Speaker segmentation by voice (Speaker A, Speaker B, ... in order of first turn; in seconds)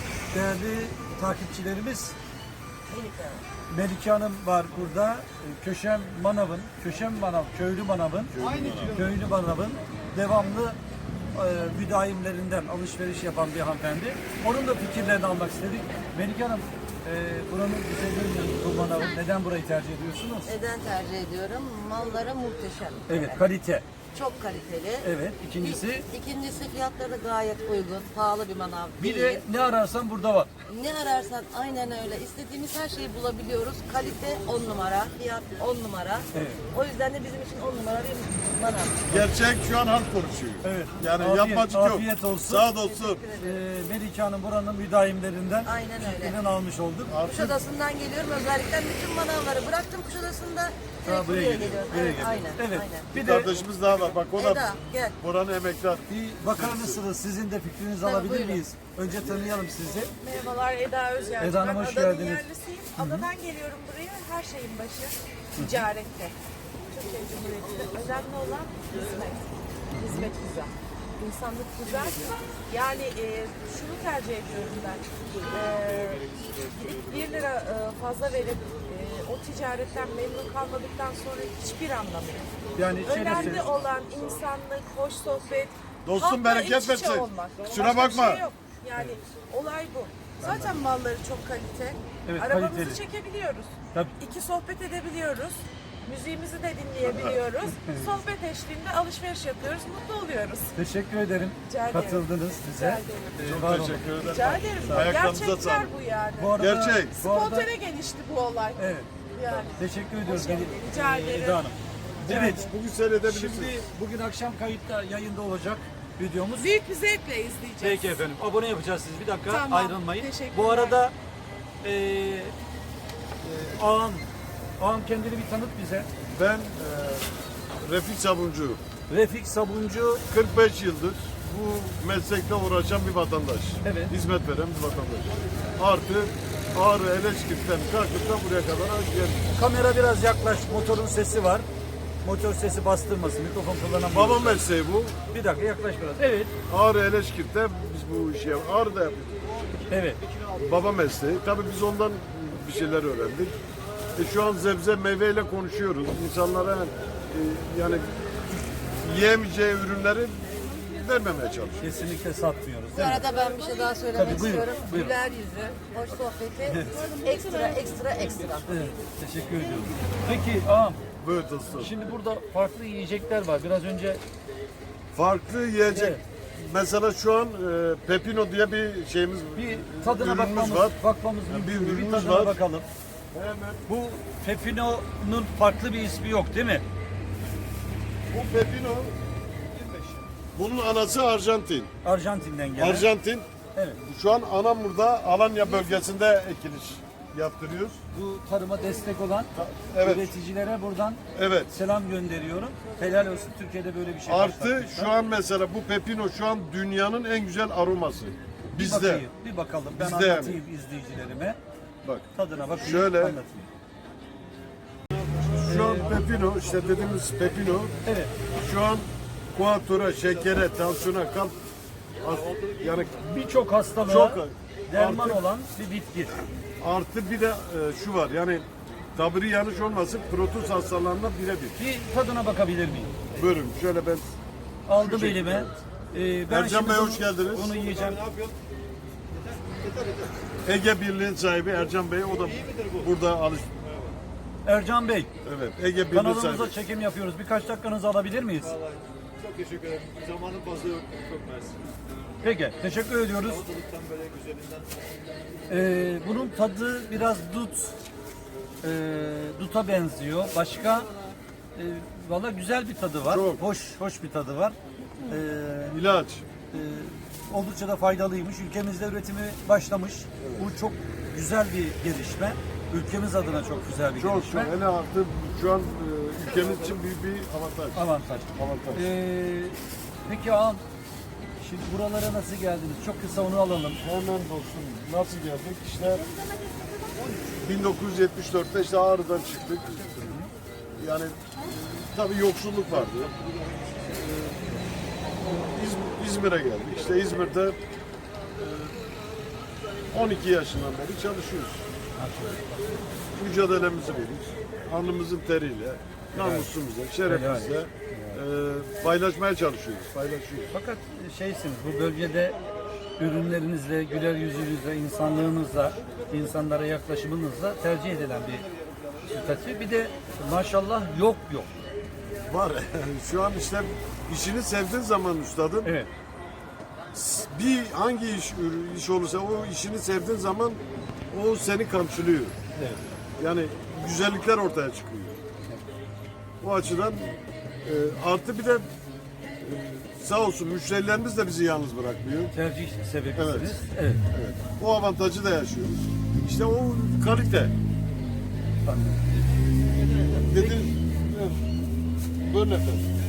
Speaker A: 0.3-2.1, 3.7-10.8, 11.3-20.5, 23.1-23.8, 25.0-26.1, 29.0-30.5, 36.3-36.6, 40.6-42.7, 43.4-47.1, 51.0-53.5, 56.1-60.1, 61.4-62.4, 63.0-63.3, 65.5-65.9, 69.9-70.3, 82.7-83.7, 90.4-90.7, 92.2-93.0, 97.7-98.1, 100.7-104.0, 104.9-105.1, 106.4-107.7, 108.8-109.1, 109.7-112.7, 113.2-116.7, 117.8-121.1, 121.8-122.5, 123.4-126.1, 129.1-130.2, 133.8-134.1, 139.5-141.7, 142.2-144.7, 145.3-146.5, 149.9-150.2, 161.8-163.3, 164.1-165.2, 166.7-167.1, 168.7-171.0, 171.7-174.2, 175.9-176.2, 179.5-182.9, 183.9-186.8, 192.0-193.1, 198.1-205.1, 208.7-211.6, 212.3-213.7, 215.7-216.2, 218.0-218.3, 223.1-226.4, 231.8-233.1, 234.9-238.2, 244.6-245.3, 246.1-248.7, 252.4-253.6, 255.7-257.9, 258.8-261.1, 261.7-266.0, 266.7-274.7, 277.9-280.8, 281.6-284.0, 290.2-290.5, 302.2-302.6, 306.4-306.7, 307.2-308.4, 310.7-312.6, 313.2-318.7, 319.2-321.7, 325.8-326.1, 332.7-333.0, 342.5-344.2, 348.8-349.4
Speaker B: 2.9-3.4, 20.4-23.4, 24.1-29.4, 30.7-39.2, 42.7-43.6, 45.6-46.4, 47.2-53.1, 54.3-55.1, 58.0-58.6, 162.9-168.7
Speaker C: 8.3-9.1, 39.1-43.2, 47.1-47.6, 53.1-57.0, 86.0-88.5, 97.0-97.4, 103.4-105.9, 106.6-107.2, 112.2-113.8, 126.3-127.3, 127.8-128.8, 130.3-139.5, 144.1-145.1, 146.7-149.6, 150.5-153.6, 154.1-161.9, 171.2-171.9, 175.1-182.6, 183.3-183.8, 188.3-189.1, 190.5-191.9, 192.8-193.5, 194.0-198.0, 199.5-200.3, 201.3-201.8, 204.2-209.3, 209.9-210.6, 212.0-213.4, 215.4-218.0, 218.6-221.6, 222.2-223.2, 224.0-225.4, 226.8-231.8, 233.3-234.2, 234.9-235.8, 236.5-237.8, 240.6-243.8, 245.4-246.8, 250.1-251.3, 263.2-263.6, 265.9-266.4, 270.4-270.7, 274.2-279.1, 284.0-286.2, 287.6-290.2, 290.9-293.4, 294.0-294.6, 295.4-297.8, 298.6-298.9, 300.1-301.8, 303.3-310.7, 322.4-325.9, 327.1-332.6, 333.4-335.4, 336.6-338.9, 339.6-342.5, 343.3-343.8, 344.3-347.7, 350.3-351.8, 352.4-353.1
Speaker D: 60.2-66.3, 66.9-100.7, 101.7-103.5, 104.2-106.6, 107.1-111.7, 116.5-118.2, 119.5-121.0
Speaker E: 238.2-238.5, 239.7-240.4, 249.4-251.8, 253.6-254.9